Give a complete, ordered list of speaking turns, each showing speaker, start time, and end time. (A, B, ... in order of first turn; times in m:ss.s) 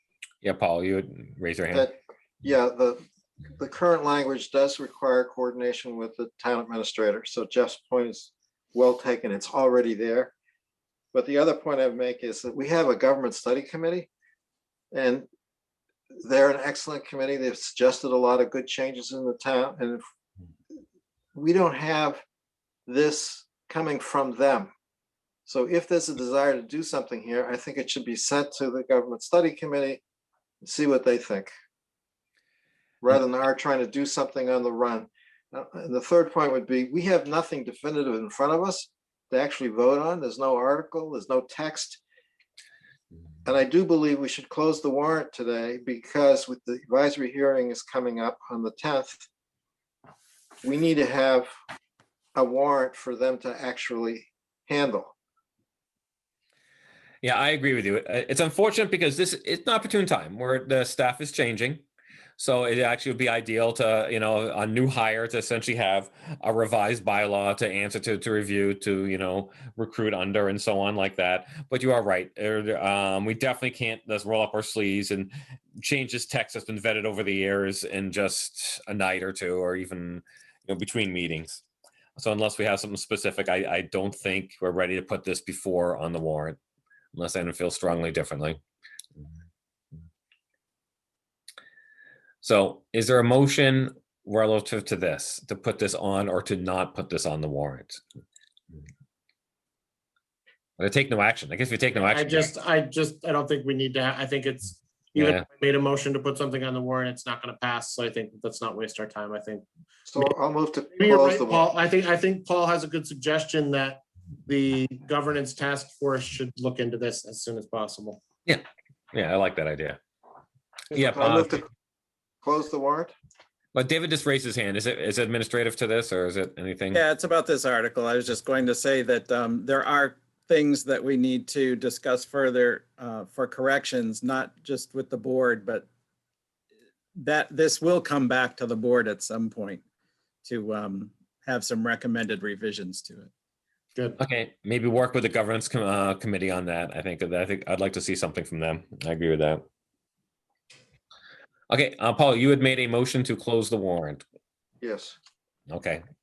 0:00.4-0:01.9 A
0:01.7-0:03.0 B
0:03.6-0:10.3 B
0:11.1-0:14.1 B
0:14.9-0:15.3 B
0:16.2-0:20.0 B
0:21.4-0:22.2 B
0:22.9-0:24.7 B
0:25.5-0:30.0 B
0:30.6-0:31.5 B
0:33.0-0:42.0 B
0:43.4-0:49.3 B
0:50.6-0:51.5 B
0:52.4-0:55.1 B
0:57.2-1:01.8 A
1:02.4-1:21.6 A
1:22.2-1:26.6 A
1:27.1-1:28.6 A
1:32.4-1:38.0 A
1:40.8-1:42.5 A
1:42.1-1:49.6 C
1:45.2-1:45.4 A
1:50.1-1:51.7 B
1:51.0-1:58.2 C
1:58.5-2:00.0 A
2:00.9-2:01.6 A
2:01.1-2:01.7 B
2:02.4-2:03.1 B
2:03.7-2:07.0 A
2:06.9-2:15.9 D
2:17.2-2:19.8 D
2:20.4-2:23.3 D
2:24.2-2:29.6 A
2:31.7-2:34.2 A
2:34.8-2:35.2 B
2:35.7-2:36.0 A